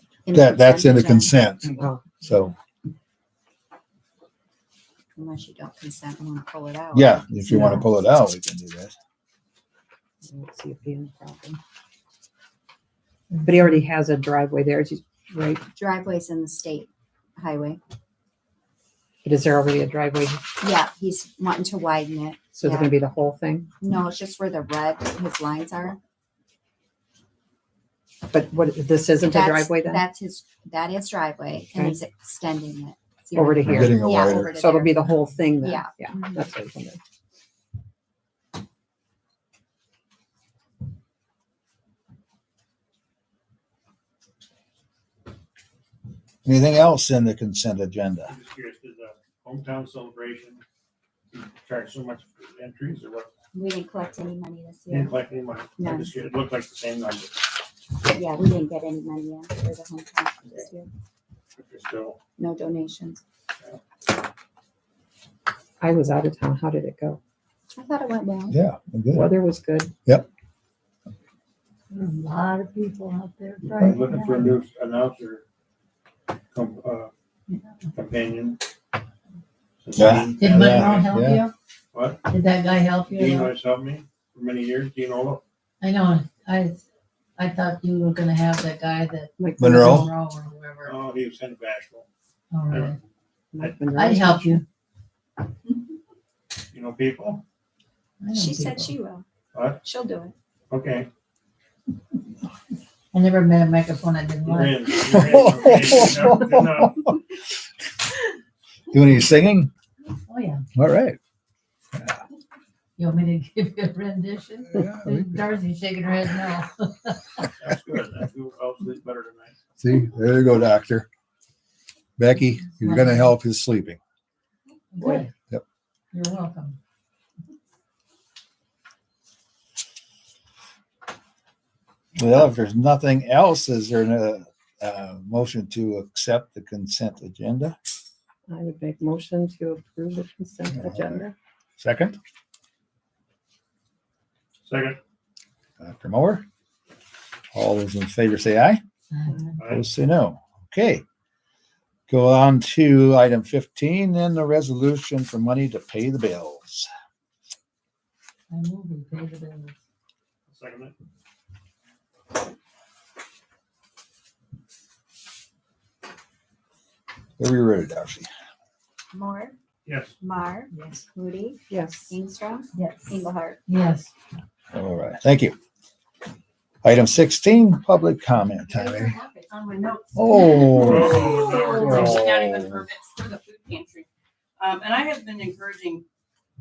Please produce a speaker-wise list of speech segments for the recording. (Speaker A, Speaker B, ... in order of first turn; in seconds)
Speaker A: 0.2-1.4, 5.2-7.3, 15.8-17.8, 20.6-22.9, 23.8-26.0, 29.2-36.5, 53.5-55.2, 55.8-56.1, 58.1-60.9, 62.4-63.2, 67.8-68.6, 98.3-99.2, 99.8-100.3, 169.1-169.6, 170.2-173.6
Speaker B: 0.3-2.5, 6.9-8.9, 33.6-34.5, 46.5-48.3, 68.5-69.3, 80.0-81.4, 89.6-90.1, 105.1-107.1, 108.9-109.7, 110.8-111.2, 111.9-112.2, 114.7-115.4, 119.8-121.1, 122.2-124.0, 132.2-137.8, 140.7-141.3, 141.8-142.2, 145.8-146.4, 147.5-148.8, 149.7-151.0, 152.1-156.9, 167.4-168.3, 174.7-175.6, 176.8-179.2, 180.2-182.8
Speaker C: 1.6-2.1, 10.2-11.6, 13.4-15.7, 19.2-20.5, 22.5-23.7, 28.3-30.1, 33.3-37.0, 65.8-67.2, 69.1-69.9, 89.4-89.7, 93.5-94.6, 138.5-141.3, 171.7-172.1
Speaker D: 7.5-7.8, 13.3-13.8, 71.9-74.5, 80.2-81.5, 82.2-83.5, 85.8-86.8, 87.4-91.0, 92.5-92.9, 93.9-94.6, 98.2-98.9, 103.1-105.0, 110.3-110.6, 113.0-117.4, 122.8-123.3, 124.9-125.3, 126.1-126.8, 149.1-149.6, 158.5-159.8, 172.8-173.1, 173.7-174.1
Speaker E: 48.3-50.6, 51.3-53.3, 54.9-57.6, 61.6-62.2, 73.6-75.4, 76.5-77.1, 77.9-78.6, 79.8-81.1, 81.9-82.2, 83.1-85.4, 90.8-92.1, 92.7-93.0, 93.6-93.9, 96.7-97.4, 99.5-99.8, 100.7-101.1, 104.4-106.9, 117.5-119.5, 144.7-145.0, 149.6-149.9, 160.5-160.9, 169.8-170.2, 180.7-182.0
Speaker F: 179.1-184.1, 184.6-186.1